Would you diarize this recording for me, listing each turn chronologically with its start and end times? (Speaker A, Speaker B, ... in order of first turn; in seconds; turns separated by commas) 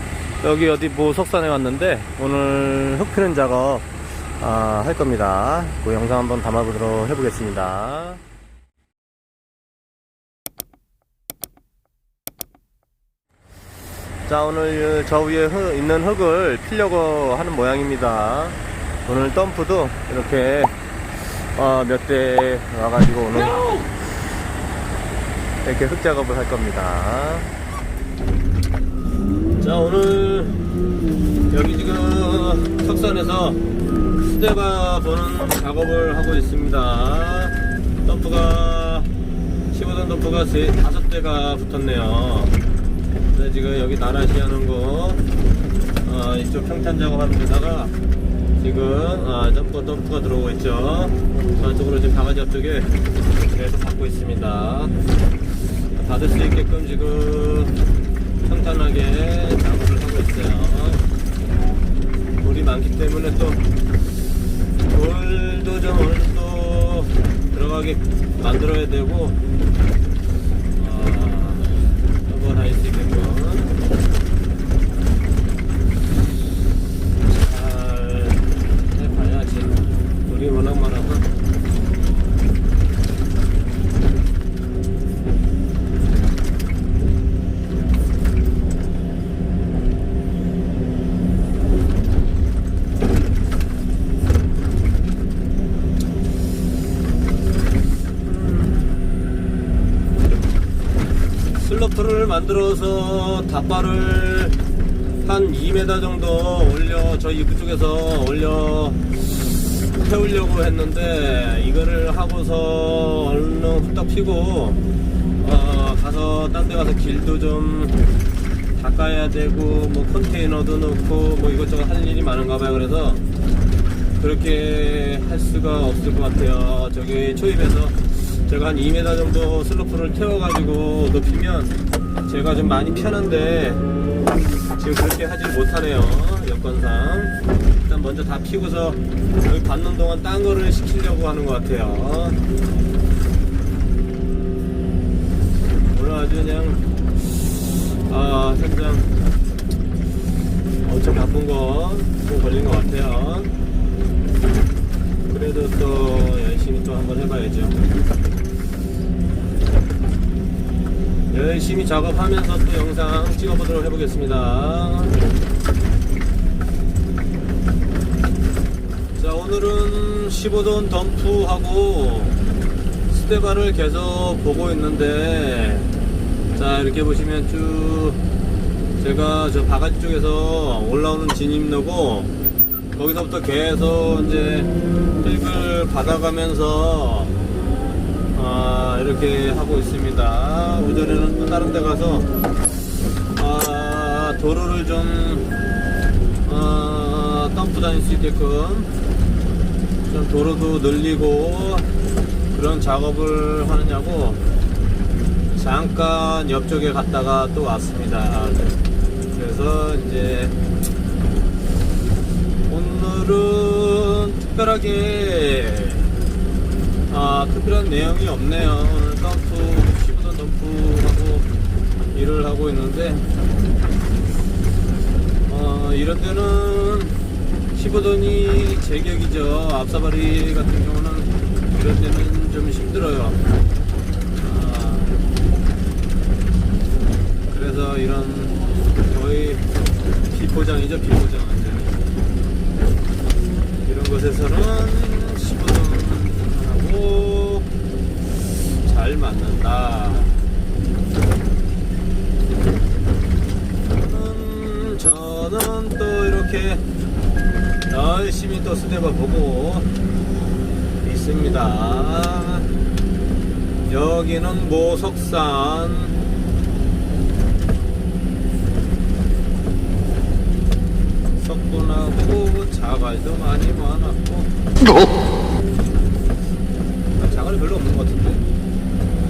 Speaker A: 0.4-8.2, Speaker A: 14.3-20.8, Speaker A: 21.5-23.9, Speaker A: 25.6-27.5, Speaker A: 29.6-30.7, Speaker A: 31.5-33.6, Speaker A: 34.1-39.1, Speaker A: 39.7-42.5, Speaker A: 43.3-45.2, Speaker A: 46.0-47.9, Speaker A: 48.6-52.9, Speaker A: 53.5-54.9, Speaker A: 55.9-57.8, Speaker A: 58.4-61.0, Speaker A: 62.4-63.6, Speaker A: 64.8-69.4, Speaker A: 70.8-73.7, Speaker A: 77.2-81.2, Speaker A: 98.2-98.8, Speaker A: 101.5-104.6, Speaker A: 105.2-114.8, Speaker A: 115.4-118.0, Speaker A: 118.7-123.2, Speaker A: 124.2-131.7, Speaker A: 132.2-133.8, Speaker A: 134.7-142.4, Speaker A: 145.9-149.1, Speaker A: 150.8-153.5, Speaker A: 155.2-157.8, Speaker A: 161.3-165.2, Speaker A: 169.2-172.4, Speaker A: 173.1-175.9, Speaker A: 176.5-178.2, Speaker A: 179.0-182.3, Speaker A: 182.9-187.4, Speaker A: 188.3-192.3, Speaker A: 193.3-195.6, Speaker A: 196.4-198.9, Speaker A: 200.1-201.9, Speaker A: 202.5-204.4, Speaker A: 205.5-208.8, Speaker A: 209.3-210.6, Speaker A: 212.7-216.1, Speaker A: 217.1-221.5, Speaker A: 222.1-223.2, Speaker A: 225.5-227.2, Speaker A: 227.7-233.4, Speaker A: 234.4-235.2, Speaker A: 237.5-239.6, Speaker A: 240.3-242.0, Speaker A: 243.8-247.7, Speaker A: 248.6-250.4, Speaker A: 253.9-256.8, Speaker A: 257.9-259.9, Speaker A: 261.0-262.7, Speaker A: 263.9-266.2, Speaker A: 271.4-274.5, Speaker A: 277.1-278.4